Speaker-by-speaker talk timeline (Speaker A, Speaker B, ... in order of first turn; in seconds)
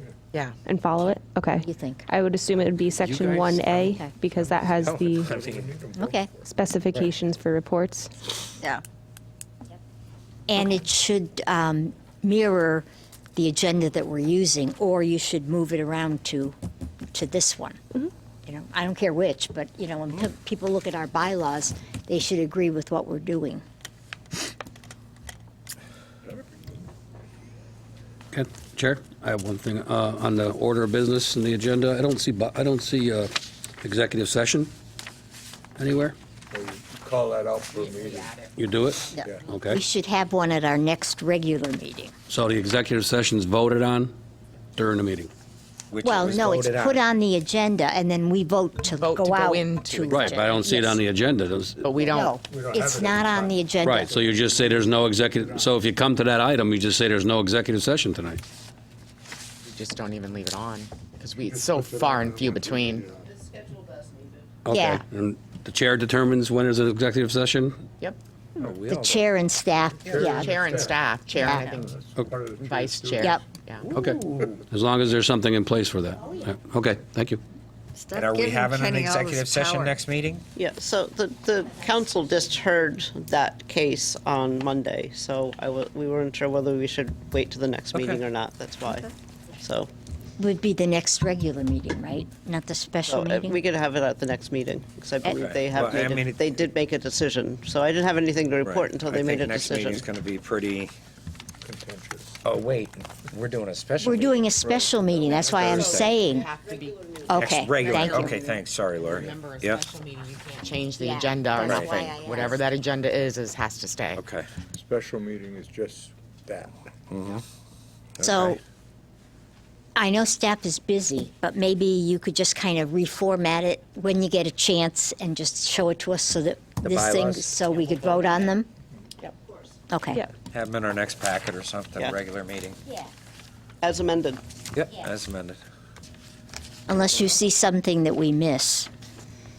Speaker A: 0.6-5.3, 6.4-8.1
Speaker B: 1.6-2.0, 6.0-6.3, 10.5-16.6, 17.1-17.8, 18.4-23.6, 39.1-42.1, 46.0-51.0, 52.1-54.2, 64.7-65.0, 68.7-70.5, 71.4-71.7, 90.4-93.6, 104.0-106.5, 107.3-108.4, 111.0-112.6, 118.2-118.6, 120.0-128.7, 129.9-130.2, 136.9-138.9
Speaker C: 3.0-3.7, 4.8-5.8, 45.9-47.0, 68.6-69.2, 78.1-80.4, 87.9-88.2, 95.2-96.6, 98.6-100.9, 102.4-104.5, 105.3-106.2, 107.3-109.8, 111.6-111.9, 114.2-114.5, 117.1-117.4, 118.2-118.6, 126.8-127.6, 130.5-132.8, 134.7-135.6
Speaker D: 5.2-6.2, 36.5-38.3, 52.4-55.7, 61.4-63.3, 70.0-71.0, 71.7-73.3, 73.9-74.2, 101.6-102.3, 104.8-105.4, 114.8-116.7
Speaker E: 28.3-34.7, 35.8-36.1, 38.5-39.8, 42.3-44.1, 44.8-45.3, 50.1-52.0, 53.8-58.4, 64.6-67.8, 73.9-77.4
Speaker F: 37.7-39.2, 48.9-50.2, 51.8-52.3, 59.6-63.1, 70.1-73.9, 106.2-107.2, 109.0-114.2
Speaker G: 63.4-64.1, 80.5-89.9, 93.1-100.1, 127.7-128.5, 131.9-132.2, 133.8-134.4
Speaker H: 77.9-80.0